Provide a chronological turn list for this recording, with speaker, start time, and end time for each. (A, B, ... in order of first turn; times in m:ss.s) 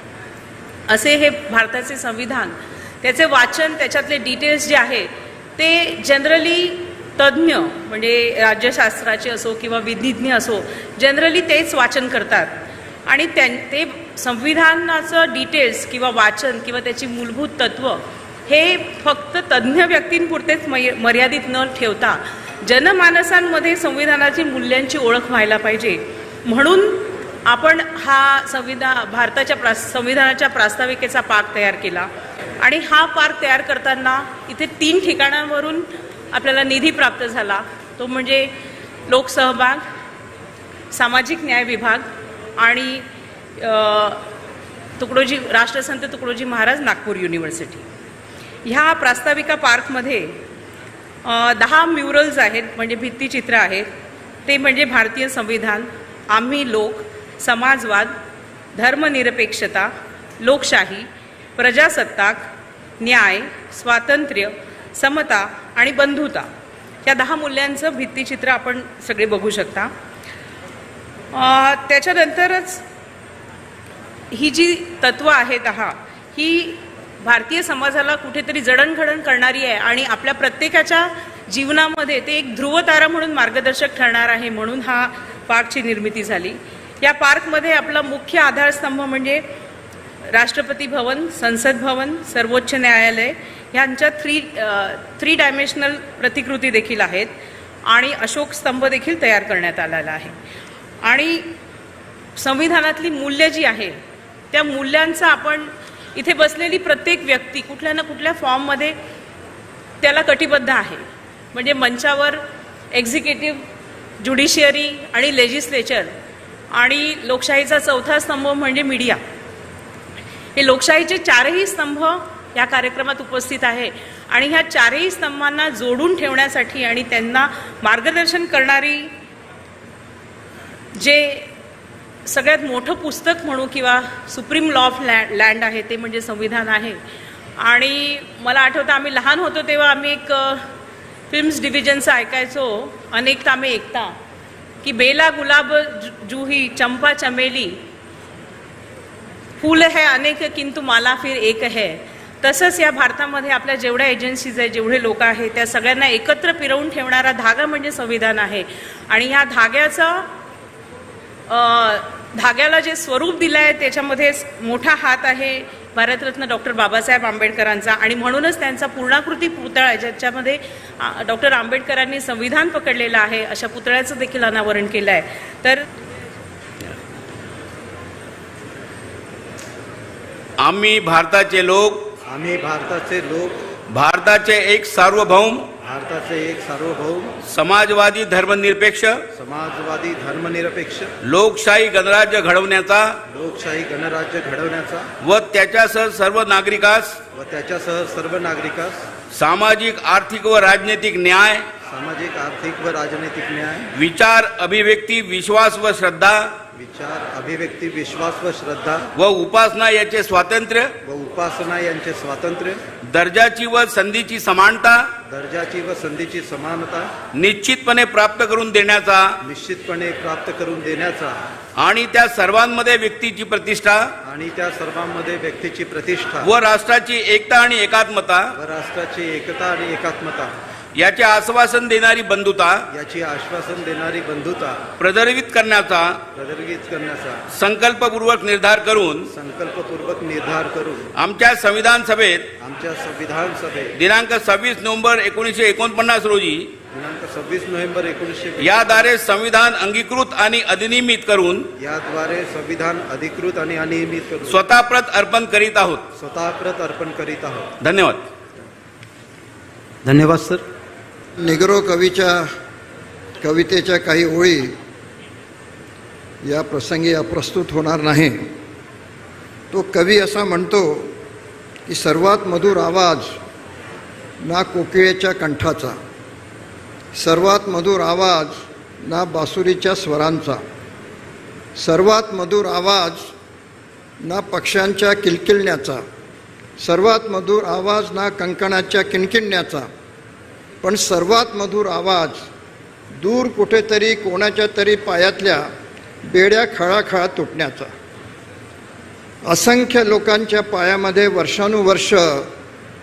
0:00.9-0:32.1 A
0:32.6-0:38.5 A
0:39.1-0:39.8 A
0:40.9-0:43.0 A
0:43.6-0:44.2 A
0:45.0-0:47.8 A
0:48.6-0:50.4 A
0:51.2-0:53.9 A
0:54.4-0:58.1 A
0:58.7-1:02.5 A
1:03.0-1:06.5 A
1:07.0-1:09.9 A
1:11.3-1:12.8 A
1:14.3-1:29.4 A
1:30.3-1:37.3 A
1:37.8-1:40.4 A
1:41.0-1:41.5 A
1:42.4-1:43.9 A
1:44.5-1:48.9 A
1:50.0-1:52.4 A
1:52.9-1:53.6 A
1:54.2-1:56.1 A
1:56.7-1:59.2 A
2:00.5-2:09.1 A
2:10.9-2:11.5 A
2:12.2-2:17.0 A
2:17.6-2:20.6 A
2:21.3-2:24.2 A
2:24.8-2:27.8 A
2:29.6-2:40.3 A
2:41.5-2:55.8 A
3:00.6-3:02.0 B
3:02.3-3:03.6 C
3:03.9-3:05.7 B
3:05.8-3:07.4 C
3:07.4-3:09.2 B
3:09.3-3:11.1 C
3:11.2-3:13.2 B
3:13.3-3:15.1 C
3:15.2-3:17.2 B
3:17.3-3:19.0 C
3:19.3-3:21.6 B
3:21.9-3:23.9 C
3:23.9-3:26.5 B
3:26.7-3:29.1 C
3:29.1-3:30.9 B
3:31.0-3:32.8 C
3:33.0-3:35.1 B
3:35.3-3:37.1 C
3:37.3-3:39.4 B
3:39.4-3:41.4 C
3:41.8-3:44.1 B
3:44.2-3:46.5 C
3:46.4-3:48.5 B
3:48.6-3:50.5 C
3:50.9-3:52.9 B
3:52.9-3:54.9 C
3:55.0-3:56.2 B
3:56.3-3:57.4 C
3:57.5-3:59.3 B
3:59.3-4:01.1 C
4:01.1-4:02.5 B
4:02.6-4:03.9 C
4:03.9-4:06.7 B
4:06.9-4:09.1 C
4:08.6-4:11.7 B
4:11.8-4:14.6 C
4:14.5-4:16.0 B
4:16.2-4:17.8 C
4:17.8-4:18.2 B
4:20.0-4:20.6 C
4:21.4-4:22.5 D
4:23.4-4:24.7 D
4:26.4-4:28.5 D
4:29.7-4:31.1 D
4:31.9-4:33.4 D
4:34.4-4:36.0 D
4:37.1-4:40.6 D
4:41.8-4:43.3 D
4:44.2-4:46.0 D
4:46.8-4:49.9 D
4:50.8-4:52.4 D
4:53.2-4:55.7 D
4:56.3-4:57.9 D
4:59.5-5:02.5 D